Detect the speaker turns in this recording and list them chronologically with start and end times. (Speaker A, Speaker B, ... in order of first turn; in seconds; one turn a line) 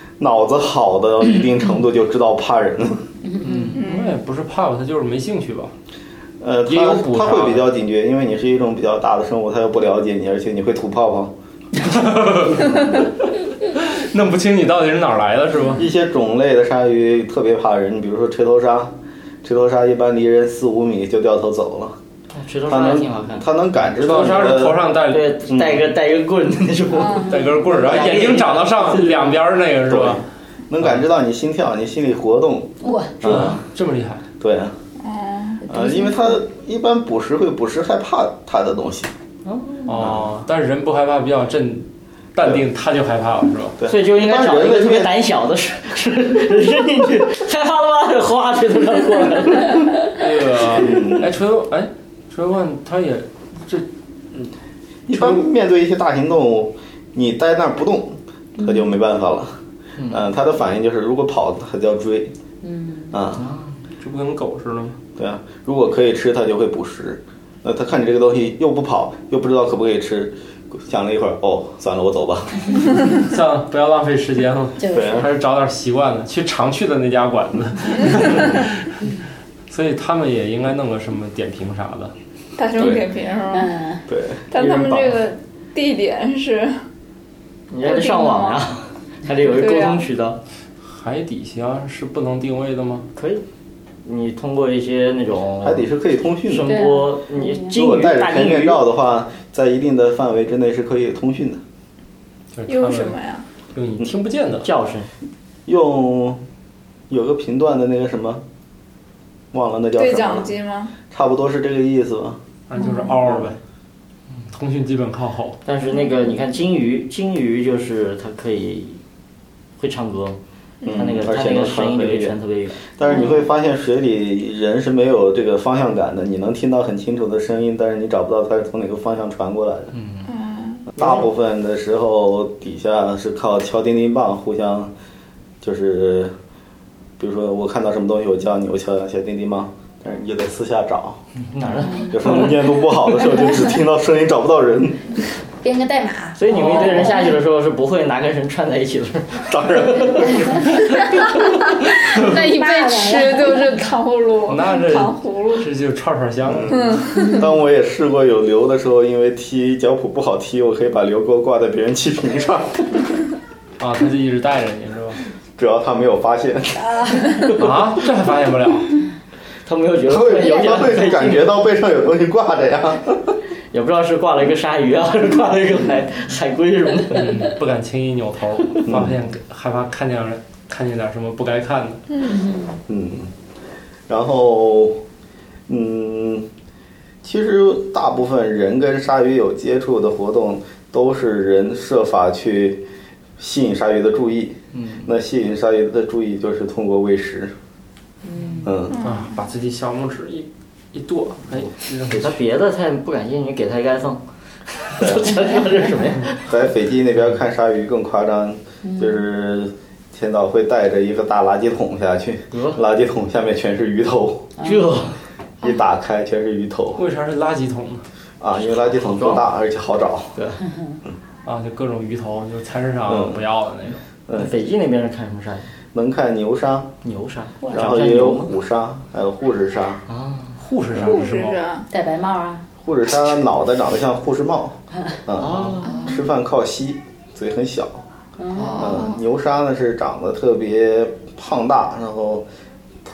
Speaker A: 0.2-3.0
Speaker B: 3.3-3.7
Speaker C: 3.4-3.9
Speaker D: 3.7-4.2
Speaker E: 3.8-5.7
Speaker A: 6.4-11.3
Speaker E: 6.7-7.7
Speaker E: 11.8-12.8
Speaker E: 13.8-15.9
Speaker A: 15.8-22.0
Speaker C: 22.3-23.5
Speaker A: 22.7-24.9
Speaker E: 24.0-25.4
Speaker C: 25.1-29.4
Speaker A: 25.5-25.9
Speaker D: 26.9-27.6
Speaker B: 27.1-27.5
Speaker E: 27.3-30.2
Speaker A: 28.1-28.3
Speaker A: 29.9-33.6
Speaker B: 32.8-33.3
Speaker E: 33.2-34.2
Speaker A: 34.4-34.8
Speaker D: 35.0-35.6
Speaker B: 35.6-36.4
Speaker A: 35.7-39.1
Speaker C: 39.5-39.9
Speaker E: 39.9-43.8
Speaker A: 40.0-40.3
Speaker A: 43.8-45.1
Speaker C: 43.9-50.0
Speaker E: 50.1-54.5
Speaker A: 50.7-51.3
Speaker A: 55.1-59.6
Speaker B: 58.6-58.9
Speaker C: 60.0-60.3
Speaker A: 60.1-62.3
Speaker B: 62.6-63.2
Speaker A: 63.1-63.5
Speaker C: 63.4-63.8
Speaker E: 64.0-65.0
Speaker A: 65.2-72.8
Speaker E: 73.2-79.0
Speaker B: 74.8-75.3
Speaker A: 74.9-75.3
Speaker E: 79.7-82.1
Speaker D: 82.6-83.7
Speaker A: 82.8-83.0
Speaker B: 83.5-84.0
Speaker A: 84.1-84.9
Speaker D: 84.5-86.8
Speaker C: 84.6-85.2
Speaker C: 87.7-90.4
Speaker D: 87.8-88.7
Speaker D: 89.5-90.0
Speaker E: 90.8-93.1
Speaker C: 93.2-93.4
Speaker C: 94.0-95.9
Speaker A: 95.6-96.8
Speaker C: 96.5-98.8
Speaker B: 96.6-97.8
Speaker A: 97.7-101.6
Speaker E: 102.5-103.2
Speaker D: 102.7-103.5
Speaker E: 103.7-104.7
Speaker C: 104.6-105.1
Speaker A: 105.7-106.4
Speaker A: 107.1-108.5
Speaker A: 109.5-110.5
Speaker D: 110.0-111.0
Speaker A: 111.1-112.4
Speaker E: 112.7-113.6
Speaker B: 112.8-113.1
Speaker A: 113.2-113.5
Speaker E: 114.5-115.6
Speaker C: 115.7-119.0
Speaker C: 119.8-120.4
Speaker D: 120.8-121.1
Speaker A: 120.9-122.4
Speaker C: 120.9-122.8
Speaker A: 123.0-129.9
Speaker B: 123.0-123.5
Speaker C: 129.9-130.3
Speaker D: 130.3-130.9
Speaker A: 131.0-134.9
Speaker A: 135.6-136.3
Speaker A: 137.2-141.2
Speaker C: 141.4-142.7
Speaker B: 141.9-142.1
Speaker A: 142.1-145.2
Speaker B: 145.6-147.4
Speaker C: 146.4-151.4
Speaker A: 149.5-150.6
Speaker B: 150.4-150.8
Speaker B: 152.1-153.9
Speaker D: 152.2-155.7
Speaker E: 154.5-157.1
Speaker A: 156.5-163.0
Speaker D: 156.7-157.4
Speaker B: 157.2-157.4
Speaker E: 163.8-165.2
Speaker A: 165.6-167.2
Speaker B: 166.8-167.5
Speaker E: 167.6-168.9
Speaker C: 169.7-171.5
Speaker A: 170.1-173.2
Speaker B: 170.3-171.3
Speaker C: 173.7-177.5
Speaker E: 177.1-182.0
Speaker A: 178.9-179.2
Speaker B: 182.2-182.8
Speaker A: 182.9-183.3
Speaker A: 184.1-185.0
Speaker A: 185.7-186.5
Speaker A: 187.2-192.9
Speaker A: 193.4-197.6
Speaker C: 194.7-195.1
Speaker B: 198.2-198.7
Speaker A: 198.6-199.0
Speaker D: 198.9-199.2
Speaker E: 199.0-202.4
Speaker C: 202.1-204.2
Speaker C: 204.8-206.5
Speaker A: 206.5-214.5
Speaker B: 208.8-209.2
Speaker C: 212.5-212.8
Speaker C: 214.6-215.2
Speaker A: 215.6-217.0
Speaker E: 217.0-218.1
Speaker A: 218.4-220.3
Speaker C: 218.9-219.5
Speaker C: 220.4-220.6
Speaker E: 221.4-224.0
Speaker A: 223.1-223.4
Speaker A: 224.3-224.5
Speaker C: 224.3-225.7
Speaker A: 225.9-226.9
Speaker C: 227.0-228.6
Speaker A: 227.7-230.0
Speaker C: 230.1-230.6
Speaker E: 230.6-231.6
Speaker D: 231.0-231.9
Speaker B: 231.9-232.7
Speaker A: 232.8-238.1
Speaker C: 235.4-236.0
Speaker B: 235.9-236.2
Speaker B: 238.4-239.0
Speaker D: 238.6-239.2
Speaker A: 238.8-242.5